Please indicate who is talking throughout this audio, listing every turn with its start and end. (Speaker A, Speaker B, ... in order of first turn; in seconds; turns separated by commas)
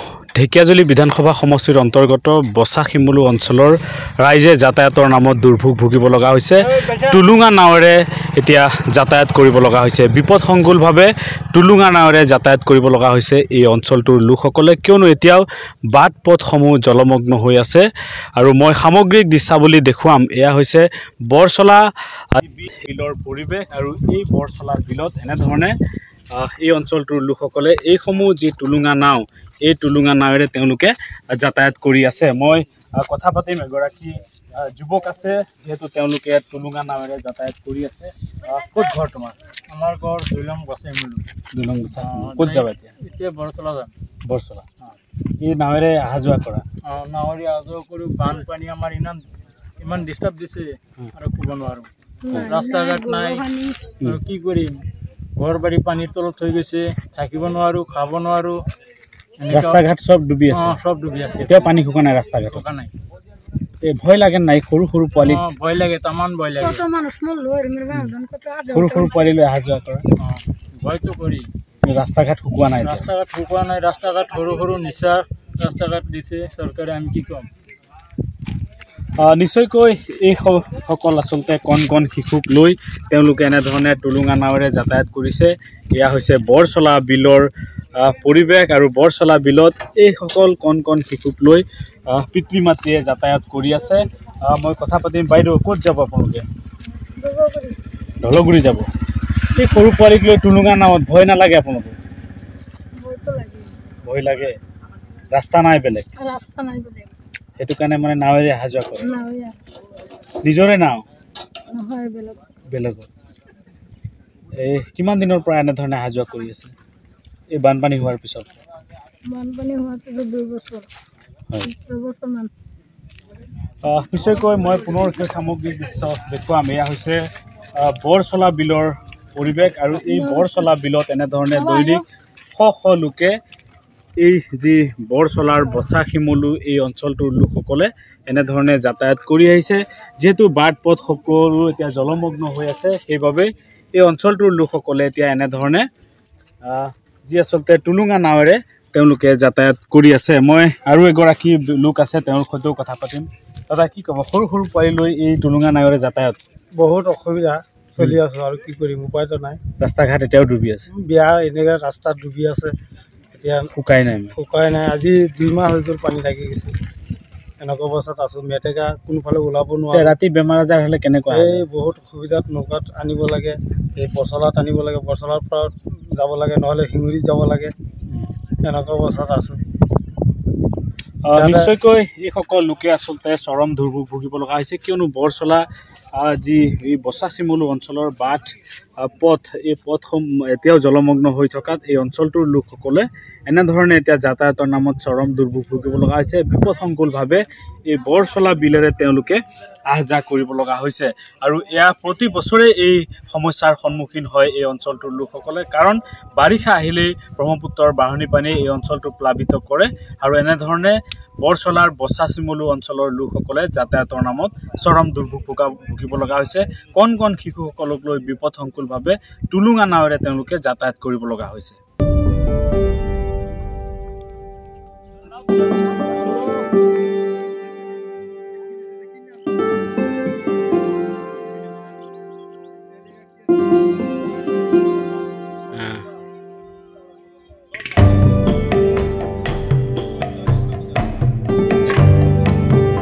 Speaker A: 0.3-25.8, Speaker B: 6.6-7.3, Speaker A: 26.3-39.4, Speaker B: 39.7-41.3, Speaker A: 41.5-42.9, Speaker B: 42.0-43.9, Speaker A: 44.3-44.6, Speaker A: 45.4-46.6, Speaker B: 46.8-49.2, Speaker B: 49.8-53.5, Speaker C: 52.2-53.9, Speaker B: 54.0-54.8, Speaker B: 55.4-58.6, Speaker B: 59.4-59.8, Speaker A: 59.5-60.8, Speaker B: 60.5-61.7, Speaker A: 61.4-62.6, Speaker B: 62.5-62.9, Speaker A: 63.8-65.4, Speaker B: 65.2-66.8, Speaker C: 66.6-69.4, Speaker A: 68.7-70.0, Speaker B: 70.2-71.5, Speaker A: 71.8-73.1, Speaker B: 72.8-77.5, Speaker A: 79.2-96.5, Speaker C: 97.2-97.8, Speaker A: 98.2-98.9, Speaker A: 99.5-102.0, Speaker C: 103.0-103.8, Speaker A: 104.0-104.6, Speaker A: 105.3-106.1, Speaker C: 106.2-107.1, Speaker A: 107.6-109.2, Speaker C: 109.0-109.6, Speaker A: 110.4-111.0, Speaker C: 111.7-112.4, Speaker A: 112.7-113.1, Speaker A: 114.5-116.7, Speaker A: 117.5-118.6, Speaker C: 119.2-120.9, Speaker C: 121.6-122.5, Speaker A: 123.8-127.2, Speaker A: 127.7-133.4, Speaker C: 130.0-130.7, Speaker C: 131.5-132.0, Speaker A: 134.2-145.9, Speaker A: 146.6-156.4, Speaker D: 156.8-159.6, Speaker A: 159.8-160.9, Speaker D: 160.9-162.7, Speaker D: 163.3-163.7, Speaker A: 163.8-164.4, Speaker D: 164.3-166.7, Speaker D: 167.6-170.2, Speaker A: 169.9-171.7, Speaker D: 171.3-177.7, Speaker D: 178.6-179.6, Speaker A: 181.2-221.8, Speaker D: 181.3-181.7, Speaker A: 235.7-236.1